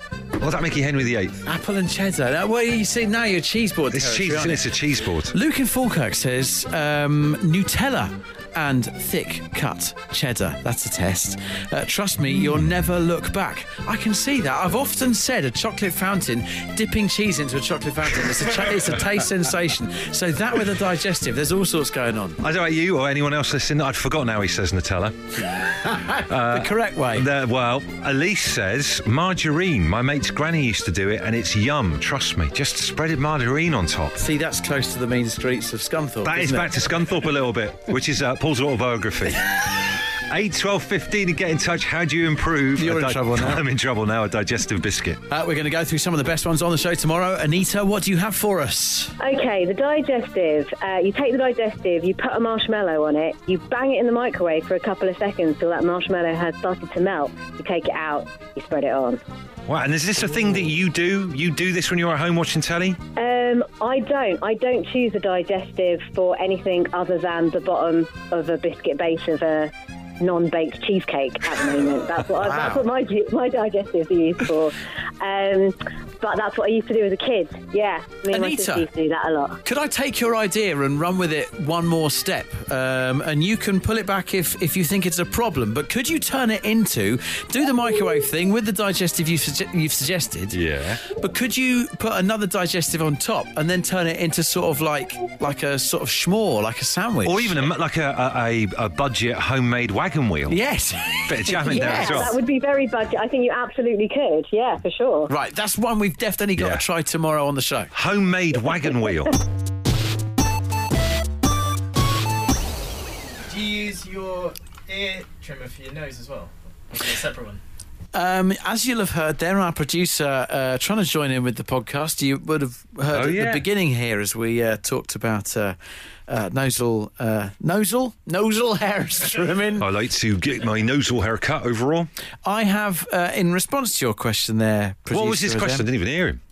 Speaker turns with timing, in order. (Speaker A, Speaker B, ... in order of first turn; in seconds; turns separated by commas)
Speaker A: 0.4-1.4, Speaker B: 1.4-22.4, Speaker A: 3.9-5.3, Speaker A: 22.4-34.2, Speaker B: 25.8-27.3, Speaker B: 34.2-36.7, Speaker A: 36.2-45.2, Speaker B: 42.8-43.6, Speaker B: 45.3-49.1, Speaker C: 49.2-59.2, Speaker A: 59.7-63.0, Speaker C: 63.2-79.6, Speaker B: 72.4-72.8, Speaker B: 78.3-78.9, Speaker B: 79.6-97.7, Speaker A: 90.5-91.0, Speaker A: 97.2-100.6, Speaker B: 100.5-102.3, Speaker A: 101.2-102.3, Speaker C: 101.6-105.3, Speaker B: 105.3-107.9, Speaker A: 106.6-106.8, Speaker A: 107.9-109.3, Speaker D: 113.5-117.6, Speaker B: 118.1-125.8, Speaker A: 123.1-123.6, Speaker B: 126.3-129.9, Speaker A: 129.8-132.1, Speaker B: 132.4-135.9, Speaker A: 135.1-136.4